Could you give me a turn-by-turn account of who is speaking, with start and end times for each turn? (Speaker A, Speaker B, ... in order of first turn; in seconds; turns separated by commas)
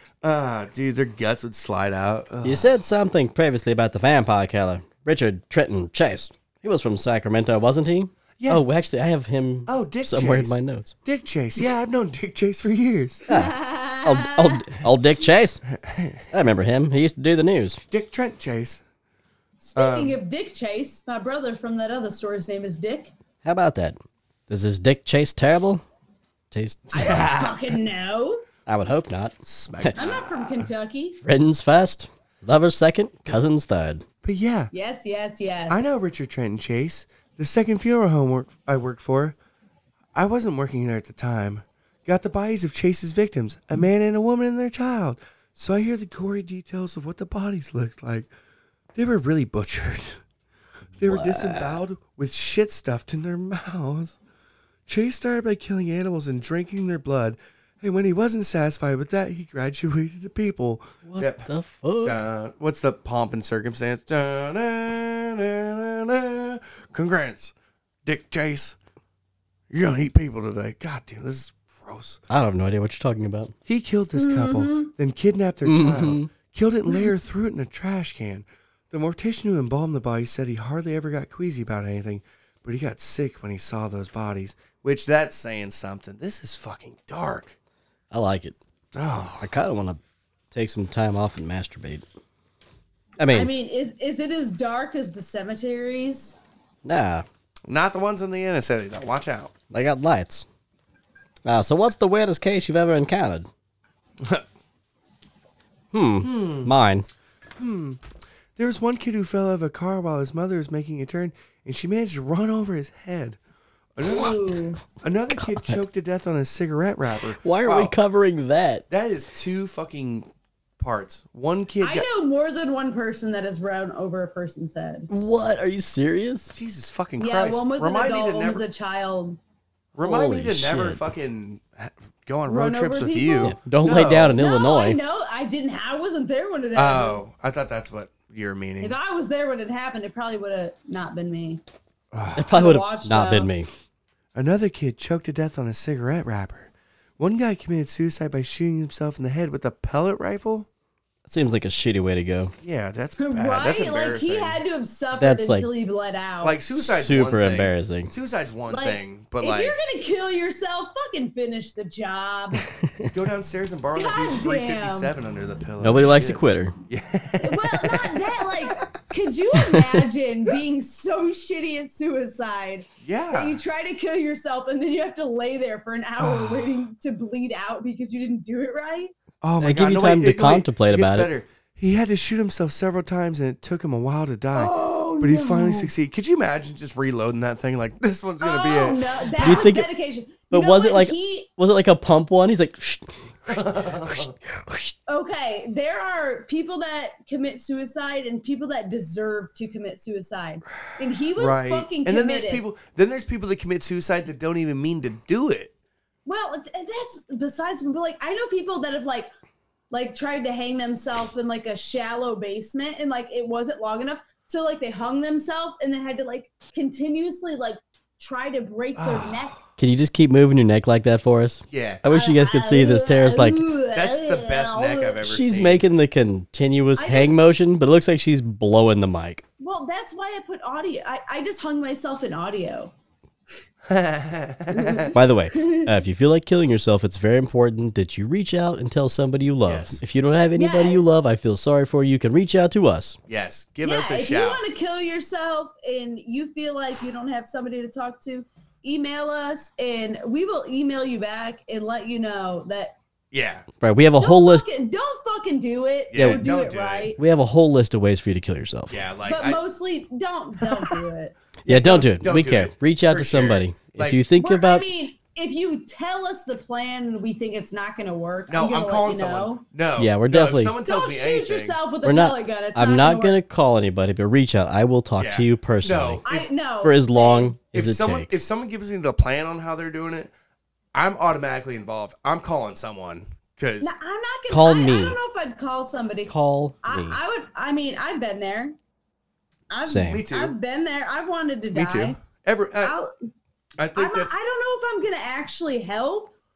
Speaker A: 0.2-2.8, Speaker B: 2.4-10.9, Speaker A: 9.7-13.3, Speaker C: 13.3-14.7, Speaker B: 13.3-15.6, Speaker A: 15.7-16.3, Speaker B: 16.3-17.8, Speaker A: 17.9-18.8, Speaker C: 19.6-23.1, Speaker A: 19.8-20.2, Speaker B: 23.4-25.8, Speaker B: 26.5-27.2, Speaker A: 26.9-27.7, Speaker C: 26.9-28.4, Speaker B: 28.7-30.0, Speaker A: 29.4-30.7, Speaker C: 30.0-31.2, Speaker B: 31.2-34.0, Speaker A: 34.2-34.7, Speaker C: 34.7-35.9, Speaker A: 35.7-39.4, Speaker A: 40.1-48.3, Speaker A: 49.0-50.2, Speaker A: 51.0-54.2, Speaker B: 51.0-51.8, Speaker A: 54.9-61.5, Speaker B: 61.1-62.2, Speaker A: 62.0-67.5, Speaker A: 68.0-68.8, Speaker A: 69.7-72.2, Speaker B: 72.3-73.5, Speaker A: 73.7-87.6, Speaker C: 74.2-74.9, Speaker B: 75.7-76.3, Speaker B: 88.1-88.6, Speaker A: 88.9-89.5, Speaker B: 89.4-90.0, Speaker B: 90.5-92.0, Speaker B: 93.2-93.5, Speaker C: 93.3-96.4, Speaker B: 96.8-97.3, Speaker A: 97.7-99.5, Speaker B: 99.7-100.5, Speaker B: 101.5-103.5, Speaker B: 105.9-107.1, Speaker A: 106.2-106.8, Speaker A: 107.6-108.0, Speaker A: 108.6-113.4, Speaker A: 114.0-118.0, Speaker C: 114.0-114.8, Speaker B: 115.4-115.8, Speaker B: 117.4-118.8, Speaker A: 118.9-120.3, Speaker A: 120.8-122.1, Speaker C: 121.8-125.1, Speaker B: 125.1-126.5, Speaker A: 126.5-128.7, Speaker C: 127.2-129.4, Speaker A: 129.9-134.4, Speaker B: 130.0-131.0, Speaker C: 132.5-133.6, Speaker B: 133.4-135.0, Speaker C: 134.4-137.2, Speaker A: 136.8-139.0, Speaker C: 138.8-141.6, Speaker A: 142.1-142.5, Speaker B: 142.4-143.7, Speaker C: 142.5-143.5, Speaker A: 144.3-150.7, Speaker B: 151.3-152.5, Speaker A: 152.6-154.6, Speaker C: 153.2-156.6, Speaker B: 155.2-155.7, Speaker A: 156.4-159.8, Speaker B: 156.7-158.1, Speaker C: 158.7-162.6, Speaker B: 162.8-163.1, Speaker A: 163.1-168.9, Speaker C: 163.9-165.1, Speaker B: 165.8-166.8, Speaker C: 167.4-179.1, Speaker A: 173.0-173.6, Speaker A: 176.2-176.8, Speaker A: 179.4-189.7, Speaker B: 179.6-181.3, Speaker C: 184.5-185.9, Speaker C: 188.4-191.5, Speaker B: 189.4-189.9, Speaker B: 190.5-194.9, Speaker A: 193.5-194.4, Speaker C: 195.1-202.6, Speaker A: 201.3-205.7, Speaker C: 206.3-209.3, Speaker C: 209.9-219.6, Speaker A: 219.0-219.6, Speaker B: 219.8-223.7, Speaker A: 221.7-222.1, Speaker C: 222.1-225.2, Speaker A: 223.9-225.8, Speaker B: 225.2-229.4, Speaker C: 227.0-227.4, Speaker C: 229.6-232.9, Speaker A: 233.9-235.2, Speaker C: 234.7-235.9, Speaker B: 235.1-243.2, Speaker A: 239.7-240.0, Speaker C: 240.6-241.1, Speaker A: 243.3-244.6, Speaker C: 243.8-253.0, Speaker A: 253.3-253.7, Speaker B: 253.8-254.7, Speaker C: 254.2-257.2, Speaker A: 256.1-257.1, Speaker B: 256.1-256.4, Speaker B: 257.2-259.0, Speaker A: 258.9-259.6, Speaker C: 259.2-261.4, Speaker B: 261.7-264.9, Speaker A: 261.7-264.2, Speaker C: 264.4-269.6, Speaker A: 268.5-271.8, Speaker B: 270.0-270.8, Speaker C: 270.9-273.4, Speaker B: 272.0-276.2, Speaker A: 275.2-276.5, Speaker C: 276.2-277.6, Speaker B: 276.8-278.4, Speaker A: 277.7-280.3, Speaker A: 280.9-283.9, Speaker C: 283.8-288.8, Speaker B: 284.5-285.2, Speaker B: 286.3-287.2, Speaker C: 289.7-292.2, Speaker B: 289.9-290.2, Speaker A: 290.1-290.6, Speaker A: 291.7-292.9, Speaker C: 292.8-293.1, Speaker A: 293.8-294.4, Speaker C: 293.9-296.3